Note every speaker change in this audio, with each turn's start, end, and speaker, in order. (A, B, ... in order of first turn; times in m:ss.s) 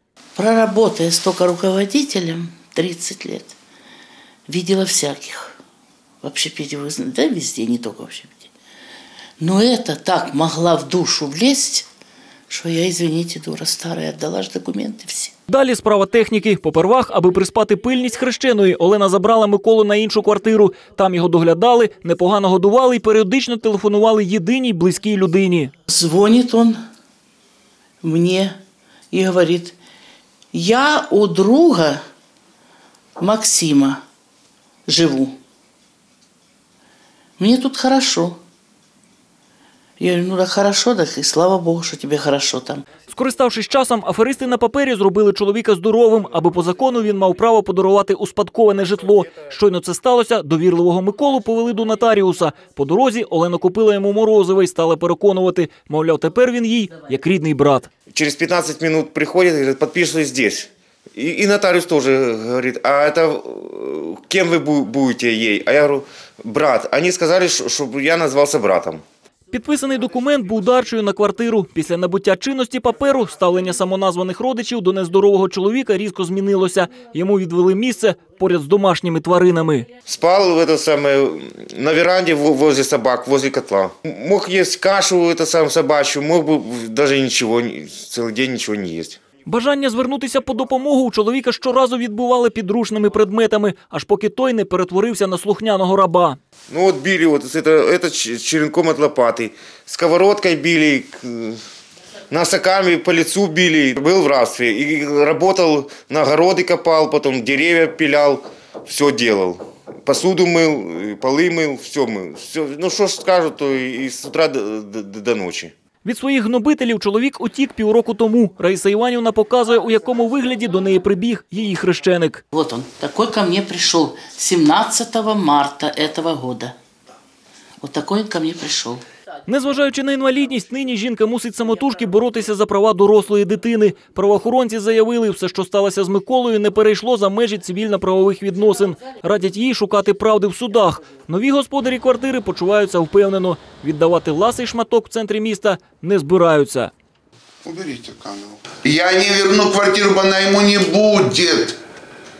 0:00.4-0:03.5 A
0:04.5-0:05.6 A
0:06.2-0:08.5 A
0:09.4-0:11.9 A
0:12.5-0:15.3 A
0:15.5-0:25.7 B
0:25.9-0:26.8 A
0:28.0-0:28.5 A
0:29.1-0:29.8 A
0:30.5-0:32.0 A
0:33.2-0:34.0 A
0:34.9-0:35.4 A
0:37.4-0:38.4 A
0:40.0-0:42.8 A
0:43.1-0:57.9 B
0:58.1-1:09.0 C
1:09.5-1:19.8 B
1:20.0-1:29.2 C
1:29.4-1:36.4 B
1:36.7-1:41.6 C
1:42.3-1:55.7 C
1:56.0-2:02.4 B
2:02.5-2:06.7 A
2:07.8-2:09.0 A
2:09.5-2:26.9 B
2:27.6-2:31.8 D